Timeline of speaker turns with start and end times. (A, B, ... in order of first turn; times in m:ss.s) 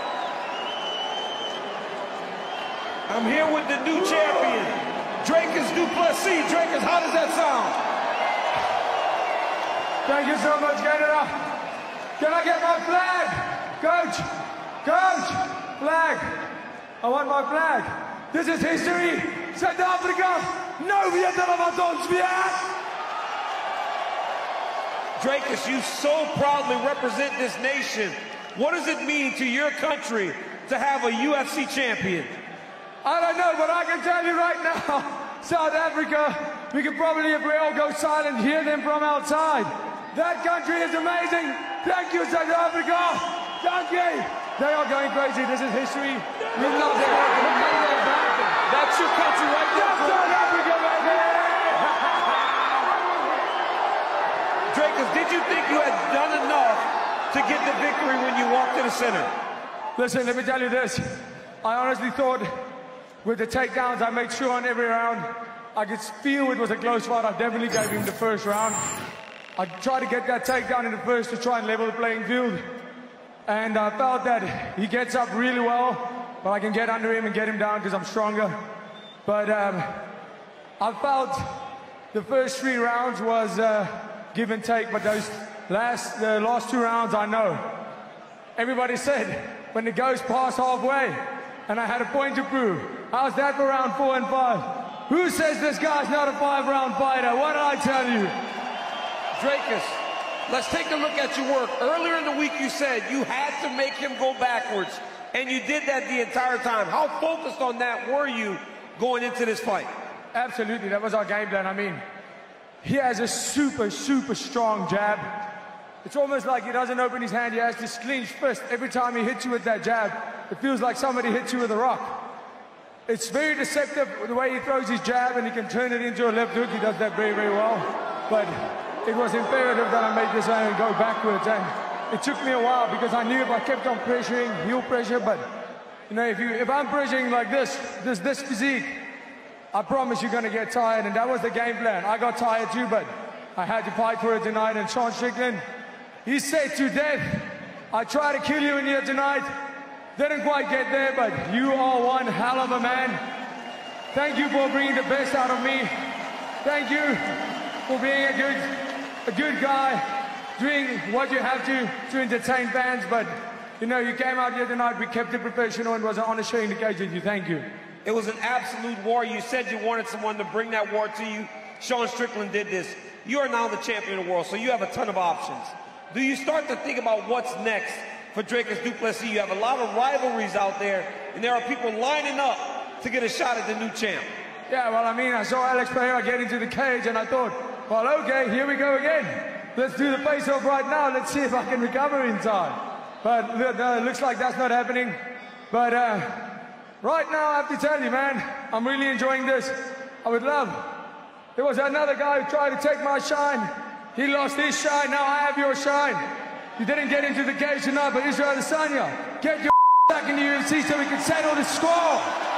0:03.1-0:07.8 A
0:10.0-0:11.3 B
0:12.2-0:14.2 B
0:14.8-0:16.4 B
0:17.0-0:22.7 B
0:25.2-0:32.3 A
0:33.0-0:48.7 B
0:46.6-0:47.9 A
0:48.7-0:50.4 A
0:49.7-0:52.4 B
0:54.7-0:59.3 A
1:00.0-1:02.5 B
1:03.2-1:08.8 B
1:09.6-1:12.6 B
1:13.5-1:18.6 B
1:19.2-1:20.1 B
1:20.8-1:21.4 B
1:22.1-1:27.8 B
1:28.6-1:38.3 B
1:39.4-1:49.9 A
1:50.3-1:52.0 B
1:52.8-1:55.4 B
1:56.0-2:02.2 B
2:03.1-2:15.4 B
2:16.1-2:18.9 B
2:19.7-2:25.6 B
2:26.2-2:29.5 B
2:30.2-2:33.2 B
2:34.1-2:35.9 B
2:36.6-2:40.0 B
2:40.6-2:47.7 B
2:48.0-3:04.3 A
3:04.7-3:15.2 B
3:15.7-3:20.9 B
3:21.5-3:26.2 B
3:26.8-3:32.3 B